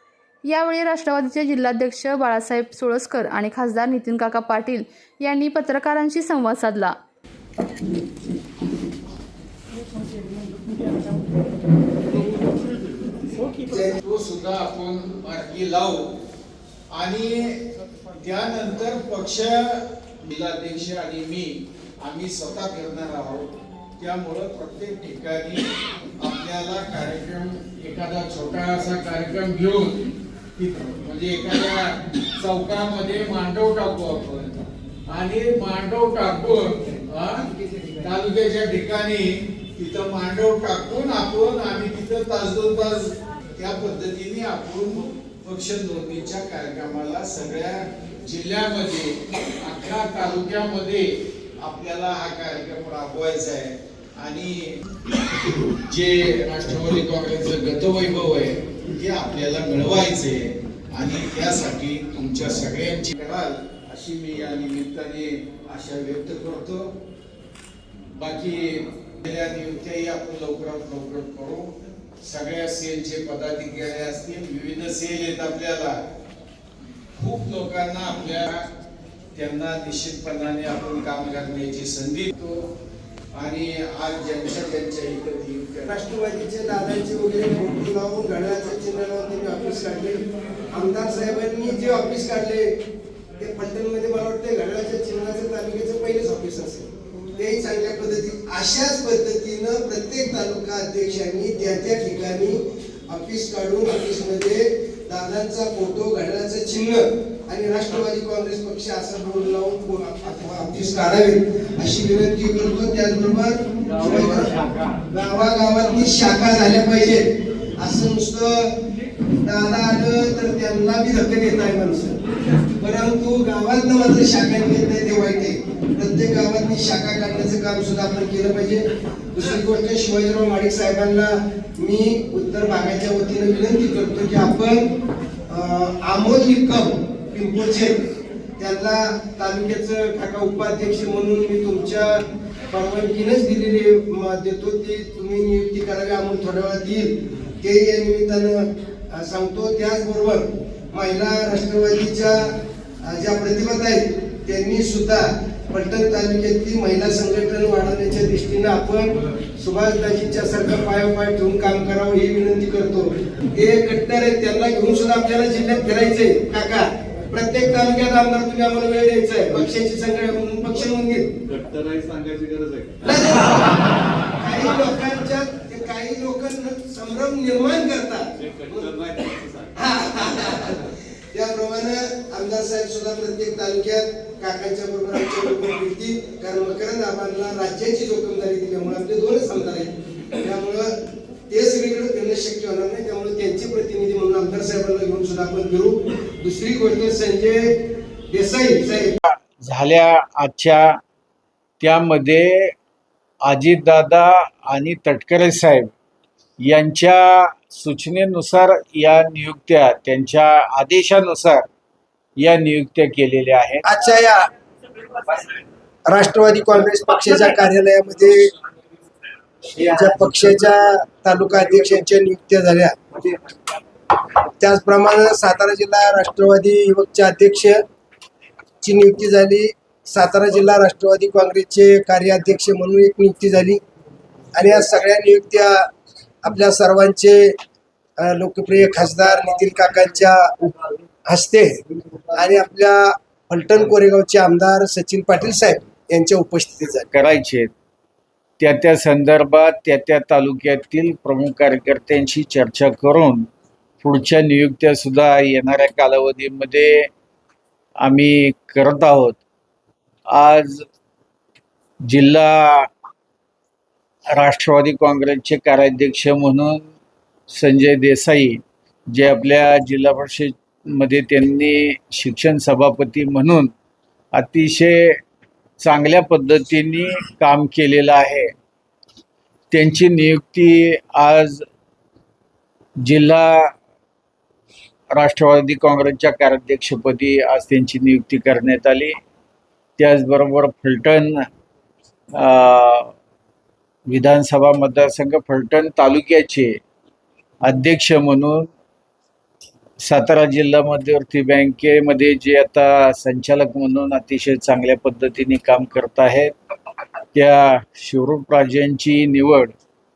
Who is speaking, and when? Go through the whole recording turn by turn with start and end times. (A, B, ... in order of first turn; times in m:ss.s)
0:00.5-0:06.9 A
0:13.7-0:14.0 B
0:14.0-0:16.1 C
0:16.9-0:17.6 C
0:18.1-0:25.7 C
0:26.2-0:30.0 C
0:30.6-0:51.1 C
0:51.6-0:54.7 C
0:55.8-1:06.9 C
1:08.1-1:16.0 C
1:17.2-1:18.7 C
1:19.3-1:22.7 C
1:23.3-1:26.0 C
1:25.8-1:32.7 B
1:33.4-1:54.5 B
1:54.0-1:54.9 C
1:55.1-1:58.7 B
1:59.4-2:02.2 B
2:02.8-2:14.9 B
2:15.5-2:18.0 B
2:18.6-2:32.5 B
2:33.0-2:51.3 B
2:51.5-2:53.0 D
2:53.0-2:58.9 B
2:58.7-2:59.6 D
2:59.8-3:10.9 B
3:11.5-3:17.6 B
3:18.3-3:19.1 B
3:19.2-3:21.0 C
3:21.8-3:22.7 C
3:23.4-3:25.9 C
3:26.6-3:31.6 C
3:32.4-3:33.8 C
3:33.8-3:34.5 B
3:36.1-3:38.5 B
3:39.7-3:43.0 B
3:44.6-3:47.8 B
3:48.8-3:53.8 B
3:54.5-3:55.8 B
3:56.4-3:57.5 B
3:58.2-4:00.7 B
4:01.3-4:01.8 B
4:02.3-4:07.1 B
4:07.1-4:07.7 C
4:08.6-4:13.5 C
4:14.0-4:17.1 C
4:18.0-4:19.4 C
4:20.3-4:20.8 C
4:22.0-4:22.9 C
4:24.3-4:26.9 C
4:27.5-4:28.6 C
4:29.1-4:33.7 C
4:34.3-4:35.2 C
4:35.8-4:38.5 C
4:39.7-4:41.6 C
4:43.0-4:43.7 C
4:45.1-4:49.2 C
4:50.0-4:51.4 C
4:52.4-4:53.1 C
4:54.1-4:56.7 C
4:57.6-4:58.7 C
5:00.0-5:06.5 C
5:07.3-5:09.7 C